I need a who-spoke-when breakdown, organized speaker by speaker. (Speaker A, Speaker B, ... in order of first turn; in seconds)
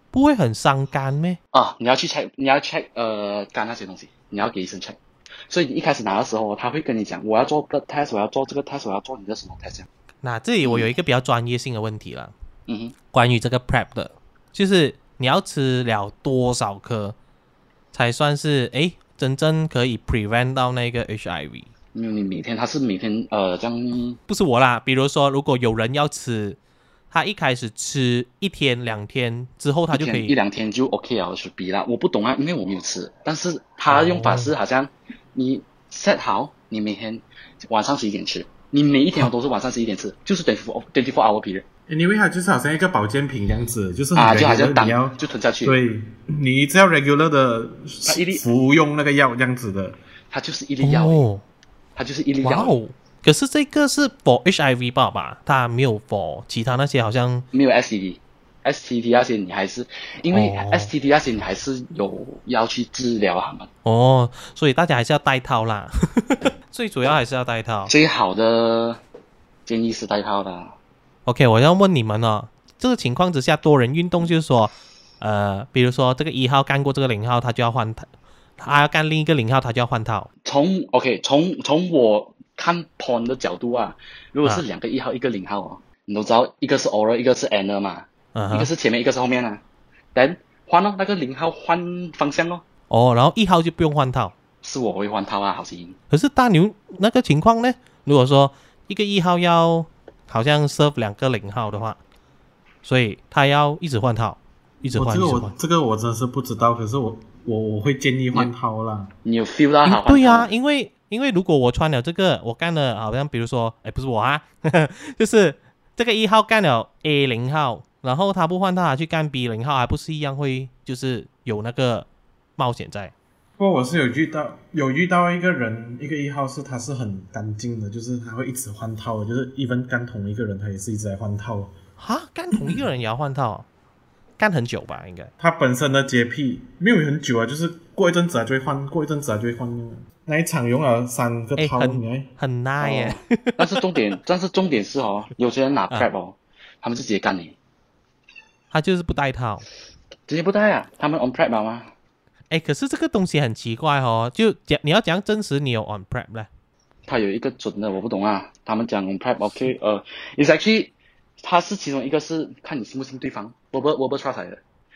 Speaker A: 0.1-1.4, 10.2-12.3, 13.1-17.1, 17.9-21.7, 24.3-26.6, 27.1-30.3, 33.9-34.5, 50.8-51.4, 52.4-57.5, 60.3-60.9, 63.8-67.9, 71.2-78.1, 78.6-80.3, 88.3-88.7, 92.9-94.3, 96.1-102.0, 102.8-105.5, 109.8-123.1, 132.0-133.7, 134.4-135.3, 141.6-143.9, 148.7-149.7, 152.5-156.5
Speaker B: 1.5-5.0, 5.5-9.9, 10.6-10.9, 12.7-12.9, 21.9-24.2, 29.9-41.6, 44.1-45.8, 48.0-48.4, 50.3-51.2, 52.0-52.7, 57.5-63.7, 67.9-69.0, 69.7-70.7, 80.4-89.6, 90.1-92.6, 94.6-96.0, 109.2-110.5, 142.8-147.5, 150.3-151.9, 157.1-164.6
Speaker C: 41.9-50.0, 104.9-109.1, 123.6-131.7, 132.5-132.8, 135.4-142.3